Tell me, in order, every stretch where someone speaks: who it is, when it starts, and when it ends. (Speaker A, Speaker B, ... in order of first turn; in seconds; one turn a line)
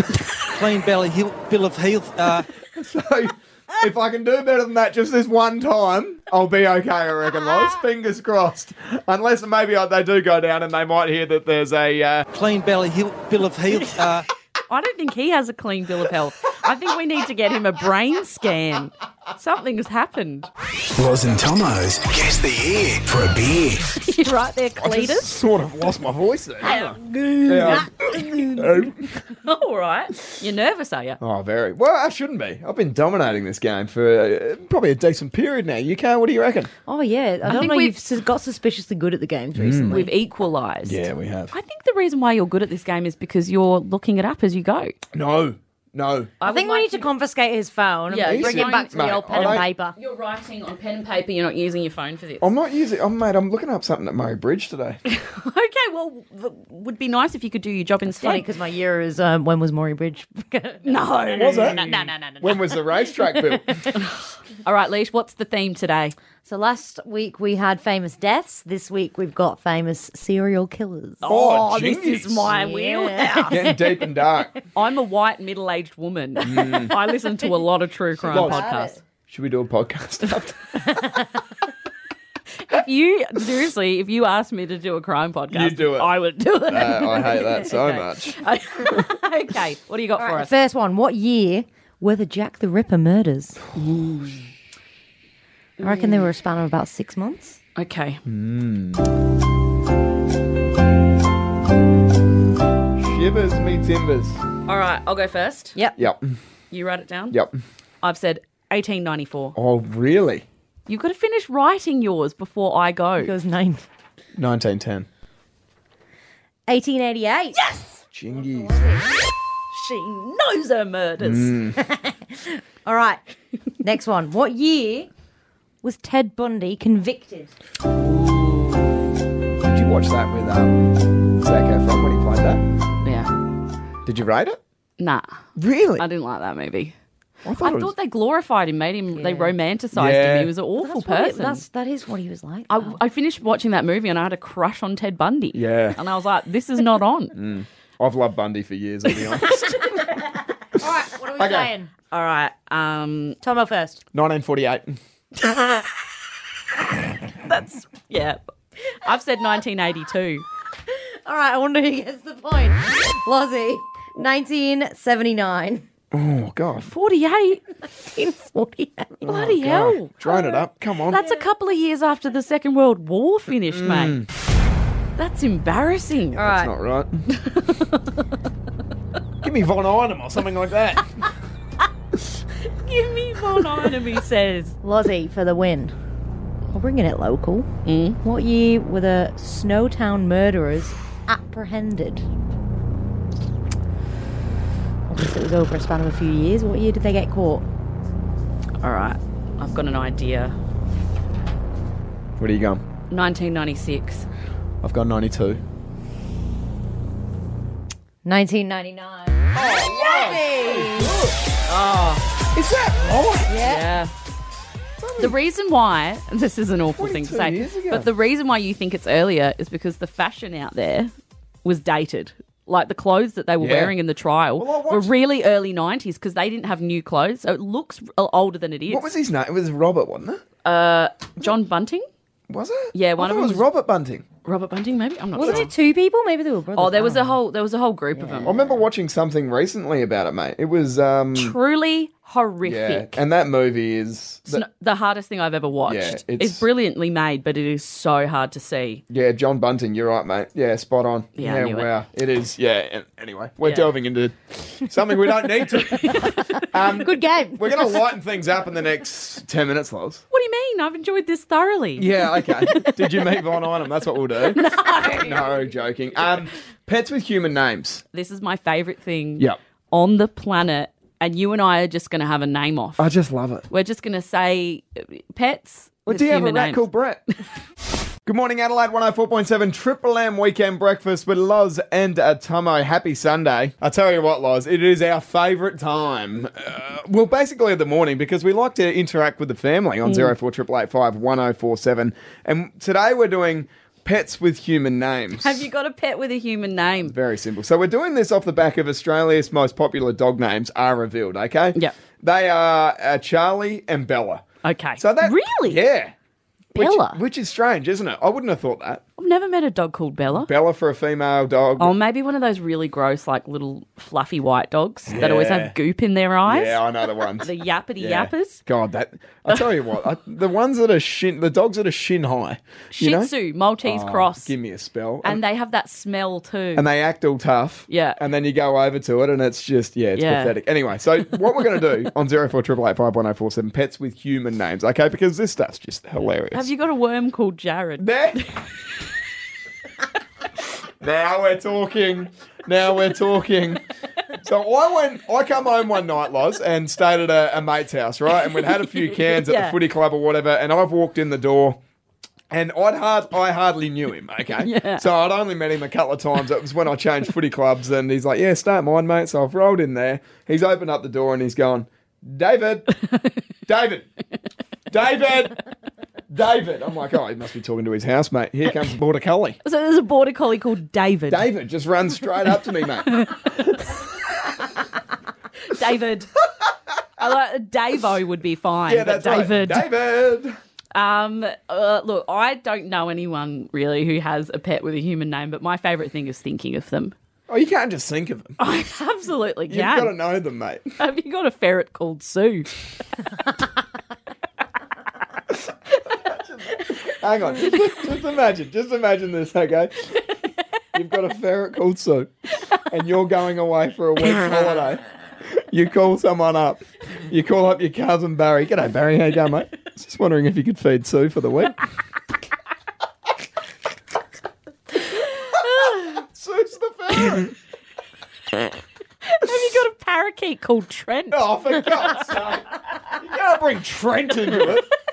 Speaker A: 0.4-2.5
Speaker B: 2.7-12.2
Speaker A: 12.3-14.2
Speaker C: 14.7-20.5
Speaker D: 20.9-23.9
Speaker C: 23.9-25.3
Speaker B: 24.8-26.9
Speaker C: 26.6-27.9
Speaker E: 26.7-28.7
Speaker B: 27.5-27.9
Speaker B: 28.5-29.1
Speaker C: 29.3-31.2
Speaker B: 31.2-36.7
Speaker E: 36.9-40.1
Speaker C: 37.5-37.9
Speaker B: 39.5-40.0
Speaker C: 39.9-45.0
Speaker B: 40.8-41.5
Speaker B: 45.1-46.3
Speaker C: 46.4-47.1
Speaker E: 46.4-50.0
Speaker C: 48.1-52.5
Speaker B: 48.2-49.6
Speaker B: 52.4-55.0
Speaker C: 55.0-58.5
Speaker E: 58.1-64.0
Speaker C: 60.8-62.0
Speaker B: 61.4-63.8
Speaker C: 63.9-66.2
Speaker E: 66.4-71.3
Speaker C: 71.2-73.6
Speaker B: 71.3-72.5
Speaker E: 72.5-74.3
Speaker B: 73.5-74.5
Speaker C: 74.7-78.9
Speaker B: 76.4-76.9
Speaker E: 76.9-77.5
Speaker E: 78.2-79.0
Speaker B: 78.3-78.6
Speaker B: 79.3-80.6
Speaker E: 80.8-81.4
Speaker C: 82.6-90.5
Speaker B: 85.5-86.1
Speaker B: 86.7-88.4
Speaker E: 90.2-93.7
Speaker B: 93.7-94.4
Speaker C: 95.8-96.3
Speaker E: 95.8-97.6
Speaker C: 97.8-98.2
Speaker B: 98.2-99.1
Speaker B: 103.0-104.4
Speaker C: 104.7-105.8
Speaker B: 106.0-106.3
Speaker C: 106.7-107.4
Speaker B: 107.3-107.6
Speaker C: 108.0-109.5
Speaker B: 109.5-110.4
Speaker C: 110.9-113.3
Speaker E: 113.2-113.8
Speaker B: 114.3-115.1
Speaker E: 116.7-119.1
Speaker B: 118.1-118.8
Speaker C: 119.7-121.6
Speaker B: 121.2-121.8
Speaker E: 121.8-123.2
Speaker E: 123.8-125.1
Speaker E: 125.8-127.5
Speaker C: 128.0-128.9
Speaker B: 129.6-130.8
Speaker B: 131.3-132.6
Speaker C: 133.0-133.3
Speaker B: 134.0-134.6
Speaker C: 135.0-135.3
Speaker B: 135.6-136.0
Speaker C: 136.0-136.9
Speaker B: 137.4-137.9
Speaker C: 137.6-141.6
Speaker E: 139.2-139.5
Speaker B: 139.9-140.5
Speaker E: 140.8-142.9
Speaker C: 142.7-147.3
Speaker B: 145.5-146.0
Speaker B: 147.3-149.7
Speaker C: 149.4-149.8
Speaker E: 149.9-151.9
Speaker B: 151.4-151.7
Speaker C: 152.1-153.4
Speaker E: 153.4-154.0
Speaker B: 154.1-155.0
Speaker C: 157.4-158.4
Speaker C: 158.9-160.4
Speaker E: 160.9-165.8
Speaker B: 166.1-166.9
Speaker C: 166.9-167.6
Speaker E: 168.0-169.2
Speaker B: 169.2-171.2
Speaker C: 169.2-174.2
Speaker E: 171.2-171.4
Speaker B: 173.7-174.3
Speaker C: 175.2-176.5
Speaker E: 176.3-176.7
Speaker B: 176.4-177.2
Speaker C: 177.3-178.2
Speaker B: 179.4-181.2
Speaker C: 182.6-184.8
Speaker E: 184.8-185.9
Speaker E: 186.7-187.7
Speaker C: 187.8-188.2
Speaker E: 188.2-192.2
Speaker E: 195.1-197.6
Speaker C: 198.8-200.6
Speaker B: 202.4-202.8
Speaker C: 203.1-204.3
Speaker B: 204.8-205.6
Speaker E: 208.2-211.1
Speaker B: 209.5-211.4
Speaker C: 211.7-212.2
Speaker B: 212.5-213.5
Speaker E: 213.5-213.9
Speaker C: 213.6-214.1
Speaker B: 215.0-215.4
Speaker C: 215.2-221.1
Speaker B: 217.0-218.1
Speaker C: 221.6-229.1
Speaker B: 223.6-223.9
Speaker B: 224.6-225.1
Speaker B: 228.9-230.4
Speaker C: 230.6-232.1
Speaker B: 232.5-234.2
Speaker C: 232.9-233.7
Speaker C: 234.4-235.7
Speaker E: 235.3-237.4
Speaker B: 235.4-235.7
Speaker C: 236.8-238.6
Speaker B: 238.4-241.6
Speaker C: 241.3-243.2
Speaker B: 242.6-244.6
Speaker C: 244.5-249.0
Speaker B: 245.8-246.6
Speaker B: 249.1-260.2
Speaker C: 251.3-251.9
Speaker C: 253.6-253.9
Speaker C: 255.8-256.6
Speaker E: 256.6-258.0
Speaker C: 260.3-263.3
Speaker B: 262.0-268.0
Speaker C: 264.4-265.4
Speaker E: 265.0-265.3
Speaker C: 268.1-273.1
Speaker B: 273.0-273.7
Speaker C: 273.7-276.9
Speaker B: 276.1-277.2
Speaker B: 278.2-295.6
Speaker C: 290.1-290.3
Speaker C: 295.4-297.1
Speaker B: 297.0-304.4
Speaker C: 304.6-305.8
Speaker B: 305.0-306.1
Speaker B: 306.7-309.0
Speaker C: 306.7-307.2
Speaker C: 309.2-310.5
Speaker B: 310.3-311.9
Speaker C: 311.8-318.6
Speaker B: 315.1-315.8
Speaker B: 316.4-323.3
Speaker C: 322.9-324.5
Speaker B: 323.8-325.4
Speaker C: 325.2-326.9
Speaker B: 326.7-336.7
Speaker C: 327.9-328.2
Speaker C: 330.1-330.5
Speaker C: 336.5-338.7
Speaker B: 338.0-338.4
Speaker B: 341.0-343.8
Speaker B: 344.4-351.8
Speaker C: 348.5-349.8
Speaker B: 352.5-362.9
Speaker C: 354.6-355.0
Speaker C: 363.0-363.3
Speaker B: 363.6-364.1
Speaker B: 364.9-365.6
Speaker B: 366.3-369.6
Speaker C: 369.6-371.5
Speaker B: 371.3-373.2
Speaker C: 373.1-373.8
Speaker C: 375.6-376.3
Speaker C: 377.2-379.9
Speaker B: 378.9-380.5
Speaker C: 380.9-387.1
Speaker B: 387.5-388.6
Speaker C: 388.6-390.1
Speaker B: 389.7-390.9
Speaker C: 391.0-392.7
Speaker B: 395.5-400.2
Speaker B: 400.9-411.8
Speaker B: 415.5-417.5
Speaker C: 415.6-416.1
Speaker C: 419.2-422.1
Speaker B: 421.3-424.9